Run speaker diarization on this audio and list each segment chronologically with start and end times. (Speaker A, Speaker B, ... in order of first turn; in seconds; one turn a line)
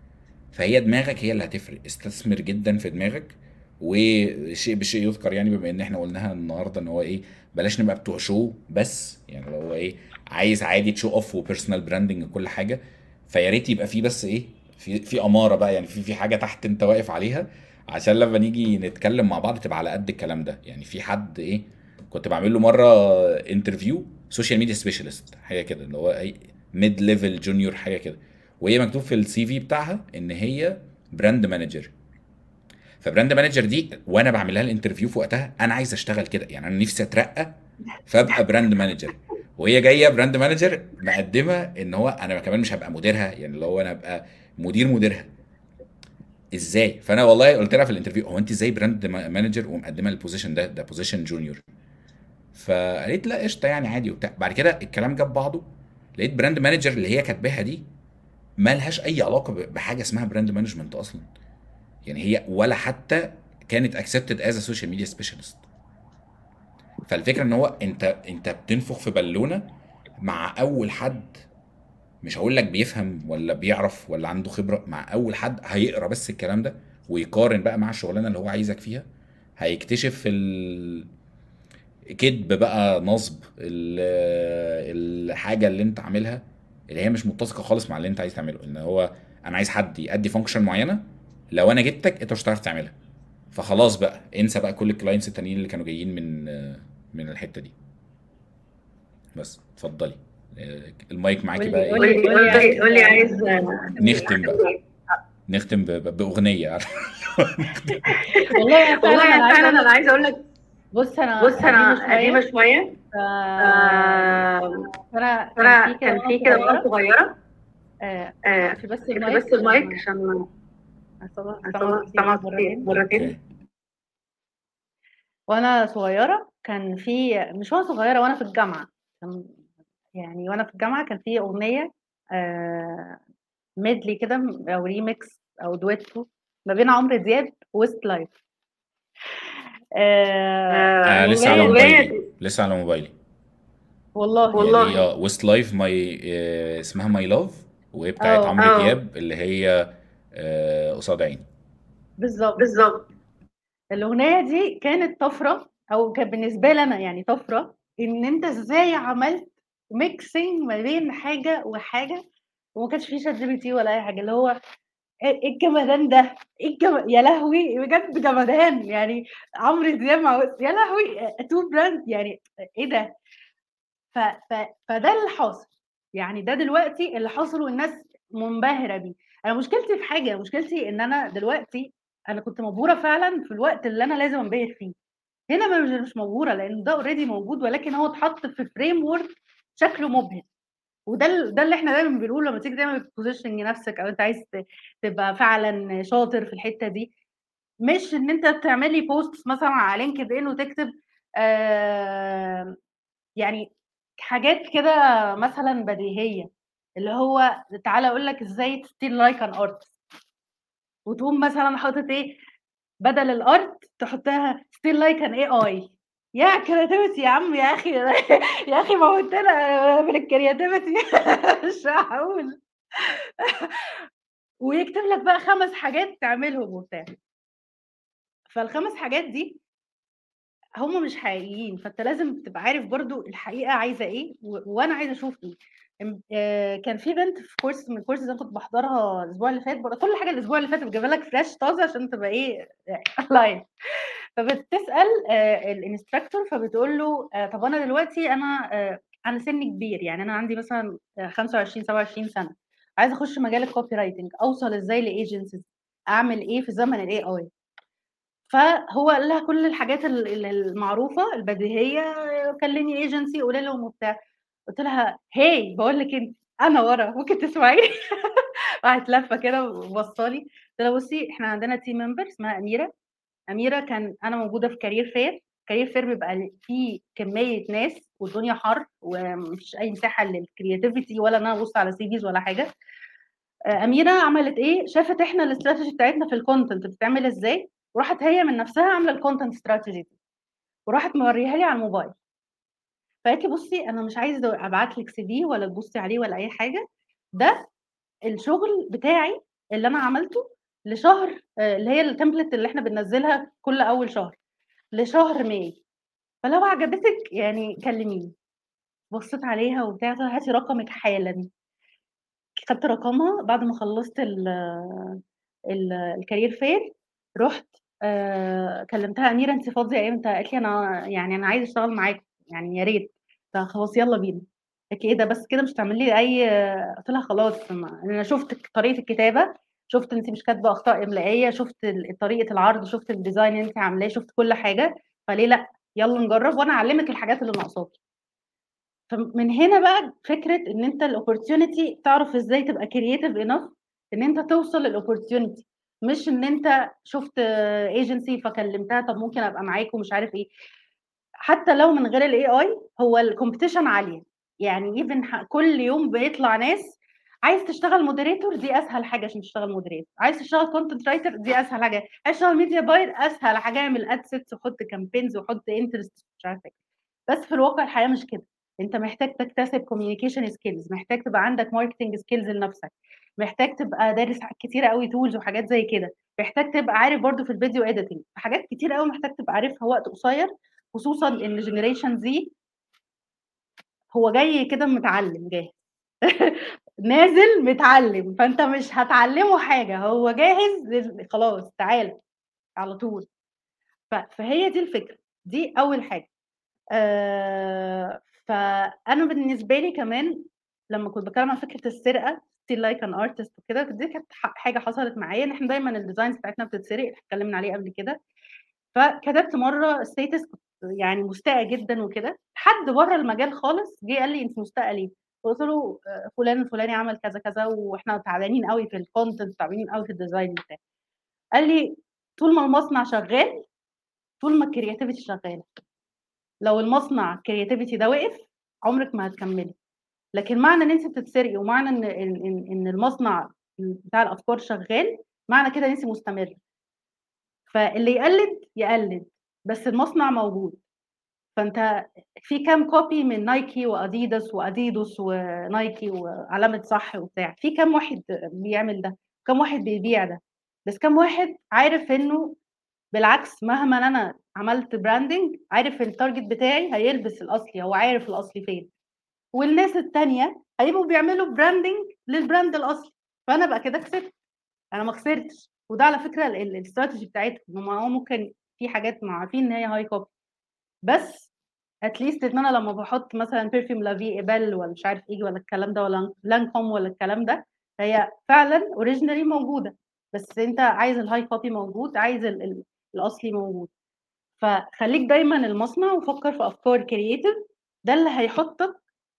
Speaker A: 0.5-31.9
Speaker A: 33.0-37.5
Speaker A: 38.1-45.3
Speaker A: 46.5-51.6
Speaker A: 52.5-55.6
Speaker A: 56.2-57.8
Speaker A: 58.6-61.3
Speaker A: 62.0-65.6
Speaker A: 67.1-69.7
Speaker A: 70.2-71.4
Speaker A: 72.2-79.1
Speaker A: 79.6-81.1
Speaker A: 82.2-92.9
Speaker A: 93.5-97.7
Speaker A: 99.3-102.9
Speaker B: 101.6-104.3
Speaker C: 102.0-104.8
Speaker A: 104.0-104.6
Speaker A: 105.5-108.0
Speaker C: 108.1-110.4
Speaker B: 108.5-109.9
Speaker B: 110.9-112.5
Speaker C: 111.4-113.0
Speaker B: 113.1-114.5
Speaker C: 113.6-114.9
Speaker B: 115.1-116.9
Speaker C: 115.6-117.3
Speaker B: 118.0-120.0
Speaker C: 118.5-120.5
Speaker C: 121.3-123.3
Speaker B: 121.6-122.9
Speaker A: 122.9-123.4
Speaker B: 125.5-129.5
Speaker B: 130.2-133.2
Speaker B: 133.8-138.3
Speaker B: 140.0-141.9
Speaker C: 140.7-142.2
Speaker A: 141.0-143.1
Speaker B: 144.2-144.8
Speaker C: 144.5-145.1
Speaker A: 144.5-151.4
Speaker B: 148.2-148.6
Speaker C: 148.6-149.0
Speaker B: 152.2-152.7
Speaker C: 152.6-153.1
Speaker B: 153.9-162.2
Speaker B: 162.8-164.6
Speaker B: 165.3-173.1
Speaker B: 174.1-184.9
Speaker B: 185.5-190.5
Speaker B: 191.1-194.5
Speaker B: 195.0-197.1
Speaker B: 197.8-202.8
Speaker B: 203.4-210.0
Speaker B: 211.1-212.4
Speaker B: 213.0-224.1
Speaker B: 224.6-227.2
Speaker B: 228.5-229.6
Speaker B: 230.8-243.7
Speaker B: 244.4-257.5
Speaker B: 258.5-264.2
Speaker B: 264.7-272.9
Speaker B: 273.5-282.7
Speaker B: 283.7-290.1
Speaker B: 290.9-292.1
Speaker B: 293.2-297.7
Speaker B: 298.3-304.4
Speaker B: 304.9-305.8
Speaker B: 306.4-308.4
Speaker B: 309.1-311.5
Speaker B: 312.6-315.2
Speaker B: 315.7-338.0
Speaker B: 339.1-350.5
Speaker B: 351.5-366.8
Speaker B: 367.3-382.5
Speaker B: 384.1-392.2
Speaker B: 392.8-393.3
Speaker B: 394.1-396.3
Speaker B: 397.0-408.2
Speaker B: 408.9-420.8
Speaker B: 421.6-423.7
Speaker B: 424.4-425.8
Speaker B: 426.6-429.8
Speaker B: 430.3-436.6
Speaker B: 437.7-440.8
Speaker B: 441.6-452.6
Speaker B: 453.1-458.9
Speaker B: 459.6-464.3
Speaker B: 464.9-470.3
Speaker B: 471.1-471.5
Speaker B: 472.1-483.9
Speaker B: 484.6-489.0